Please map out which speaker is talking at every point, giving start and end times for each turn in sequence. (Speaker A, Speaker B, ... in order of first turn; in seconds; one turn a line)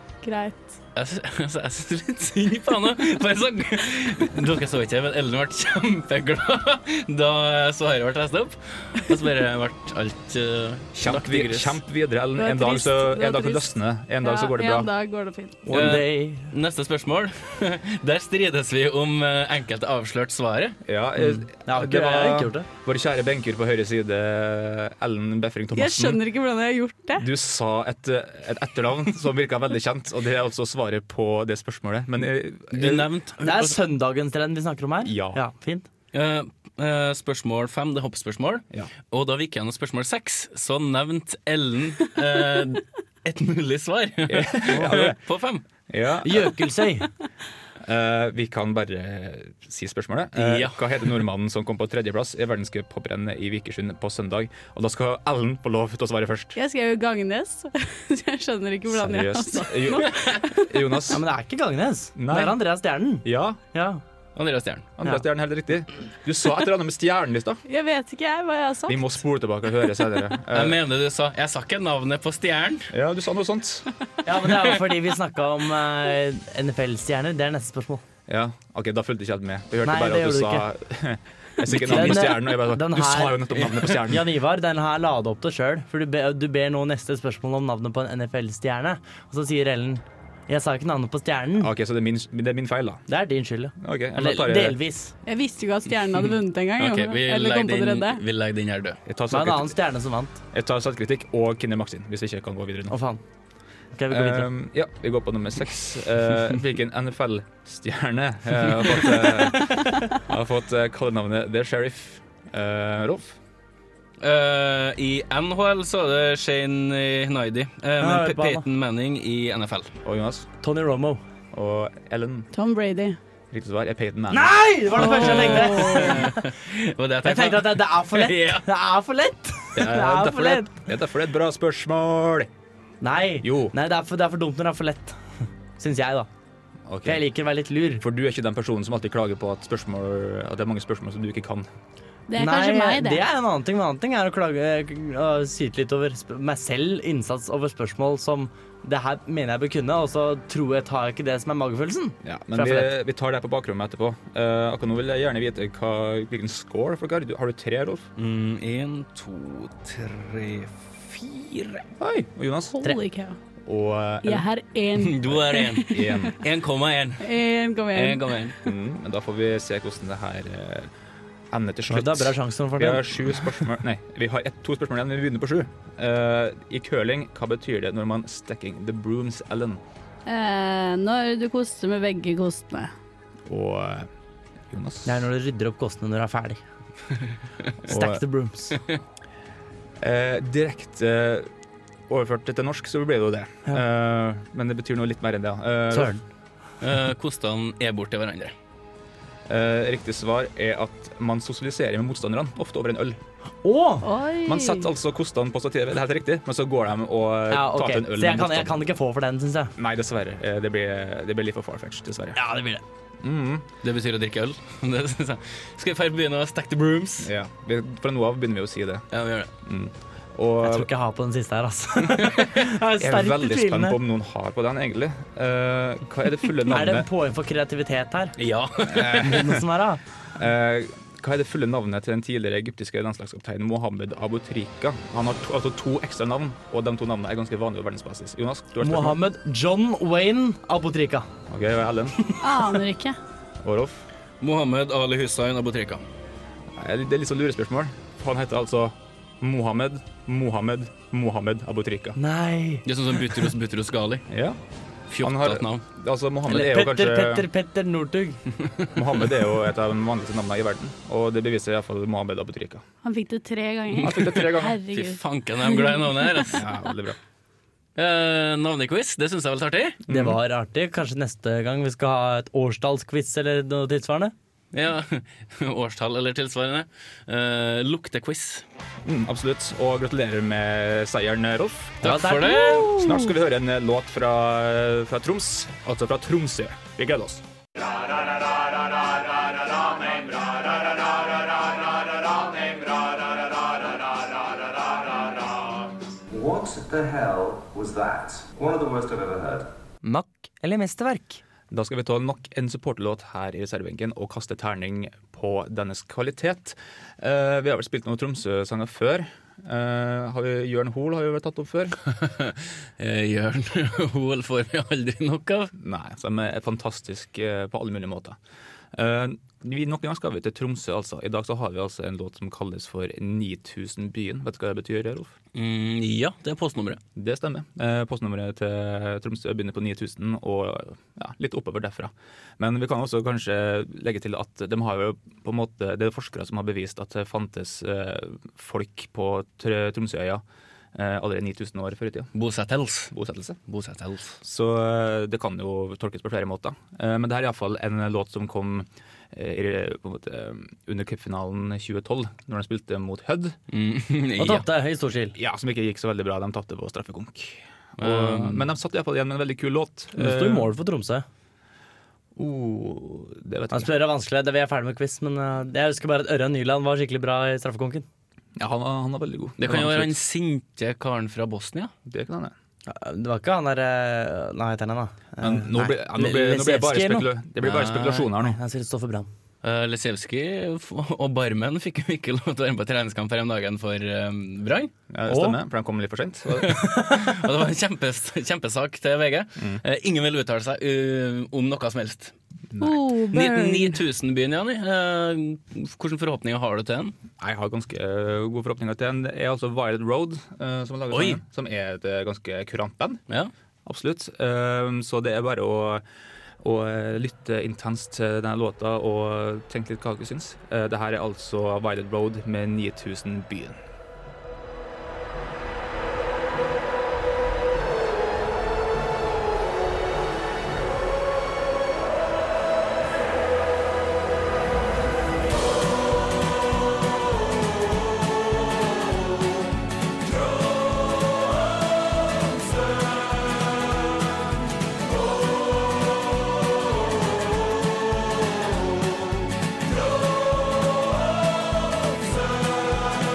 Speaker A: 0.2-0.7
Speaker B: 0.9-11.8
Speaker C: 11.0-14.9
Speaker A: 12.4-15.6
Speaker D: 15.7-16.5
Speaker B: 15.7-20.8
Speaker C: 20.9-26.2
Speaker D: 21.6-22.7
Speaker A: 25.7-27.3
Speaker C: 27.2-33.1
Speaker B: 32.7-33.8
Speaker D: 33.4-35.9
Speaker C: 35.0-35.4
Speaker B: 36.1-45.6
Speaker C: 44.3-45.2
Speaker C: 45.9-46.7
Speaker D: 46.2-47.1
Speaker C: 47.8-56.6
Speaker B: 50.4-51.1
Speaker A: 56.5-60.8
Speaker C: 58.9-61.2
Speaker D: 61.1-64.0
Speaker C: 62.2-62.6
Speaker C: 63.2-63.6
Speaker B: 64.4-64.9
Speaker C: 65.0-67.6
Speaker A: 67.7-69.1
Speaker C: 68.9-70.8
Speaker B: 70.5-72.9
Speaker C: 72.9-73.9
Speaker D: 74.2-78.0
Speaker C: 78.3-84.3
Speaker D: 79.8-80.7
Speaker D: 81.7-91.7
Speaker C: 91.6-93.1
Speaker D: 93.1-95.1
Speaker C: 93.8-94.8
Speaker A: 95.3-98.2
Speaker B: 96.8-99.0
Speaker C: 99.1-99.8
Speaker D: 99.3-100.4
Speaker C: 100.5-103.0
Speaker D: 102.9-103.2
Speaker D: 104.0-104.5
Speaker C: 104.1-113.4
Speaker B: 114.2-119.9
Speaker D: 118.0-118.6
Speaker C: 120.0-120.5
Speaker D: 120.6-121.2
Speaker C: 121.5-122.5
Speaker A: 122.5-123.2
Speaker C: 123.5-125.1
Speaker D: 124.3-126.4
Speaker B: 125.0-128.7
Speaker A: 125.5-126.0
Speaker D: 127.2-130.7
Speaker C: 129.8-132.5
Speaker D: 133.0-135.2
Speaker C: 133.4-133.7
Speaker D: 135.8-136.3
Speaker C: 136.9-137.2
Speaker D: 137.1-138.0
Speaker C: 138.0-141.7
Speaker A: 142.3-143.2
Speaker D: 142.4-152.9
Speaker C: 152.2-158.1
Speaker B: 158.2-161.9
Speaker C: 162.0-162.9
Speaker A: 162.8-163.4
Speaker C: 163.7-164.5
Speaker A: 164.2-166.3
Speaker B: 164.9-167.3
Speaker C: 165.8-166.4
Speaker A: 167.2-168.4
Speaker B: 167.9-168.6
Speaker C: 168.6-170.9
Speaker C: 171.5-179.8
Speaker D: 171.9-173.6
Speaker A: 180.3-182.9
Speaker C: 183.5-184.1
Speaker C: 184.7-185.2
Speaker D: 185.1-186.6
Speaker D: 187.9-188.8
Speaker C: 187.9-188.2
Speaker C: 190.0-191.5
Speaker C: 192.1-196.2
Speaker D: 195.9-196.2
Speaker B: 196.8-198.5
Speaker C: 199.5-203.2
Speaker D: 203.6-204.1
Speaker A: 204.0-204.9
Speaker C: 204.4-208.8
Speaker D: 207.5-209.7
Speaker C: 209.8-212.4
Speaker D: 212.4-212.8
Speaker C: 213.2-213.7
Speaker B: 213.8-217.3
Speaker C: 217.2-219.1
Speaker B: 219.1-219.5
Speaker C: 219.6-220.9
Speaker D: 220.6-224.0
Speaker C: 223.0-227.1
Speaker D: 226.7-228.3
Speaker B: 228.4-229.5
Speaker C: 228.9-229.5
Speaker D: 229.1-230.0
Speaker C: 230.3-239.2
Speaker D: 238.8-241.3
Speaker C: 241.5-242.2
Speaker A: 242.4-243.2
Speaker C: 243.6-244.0
Speaker B: 244.4-246.0
Speaker C: 246.8-252.2
Speaker D: 252.2-252.8
Speaker B: 252.9-254.3
Speaker C: 254.3-254.6
Speaker B: 255.1-255.8
Speaker C: 255.2-257.5
Speaker D: 256.5-258.4
Speaker C: 258.9-262.8
Speaker A: 263.0-266.5
Speaker C: 264.0-264.8
Speaker B: 264.0-266.6
Speaker C: 266.5-267.2
Speaker B: 268.0-270.0
Speaker C: 270.1-270.4
Speaker D: 270.1-274.3
Speaker B: 274.7-278.6
Speaker C: 279.1-282.0
Speaker B: 282.0-283.0
Speaker D: 282.0-283.3
Speaker C: 282.9-287.4
Speaker C: 289.8-290.8
Speaker E: 296.3-299.7
Speaker D: 300.0-301.4
Speaker C: 301.7-312.0
Speaker B: 312.2-315.7
Speaker C: 315.8-318.4
Speaker C: 318.9-325.3
Speaker B: 325.6-327.0
Speaker C: 327.2-340.4
Speaker C: 340.9-342.3
Speaker B: 342.4-343.1
Speaker C: 343.1-343.6
Speaker B: 343.7-344.4
Speaker C: 344.4-353.6
Speaker B: 353.7-354.7
Speaker D: 354.4-355.4
Speaker C: 355.4-360.7
Speaker B: 358.0-358.7
Speaker D: 360.2-361.2
Speaker C: 362.4-363.9
Speaker D: 363.7-368.1
Speaker C: 368.6-370.1
Speaker B: 369.6-371.9
Speaker C: 372.1-372.5
Speaker D: 372.9-377.3
Speaker C: 375.4-378.6
Speaker B: 377.6-378.3
Speaker D: 378.4-379.3
Speaker B: 379.6-384.9
Speaker C: 385.1-386.8
Speaker D: 385.3-385.6
Speaker B: 386.6-392.3
Speaker D: 387.0-387.3
Speaker C: 389.6-389.8
Speaker C: 392.7-393.0
Speaker A: 392.8-394.0
Speaker B: 393.3-397.1
Speaker C: 397.4-403.2
Speaker B: 401.1-401.4
Speaker C: 403.9-406.0
Speaker C: 406.6-413.8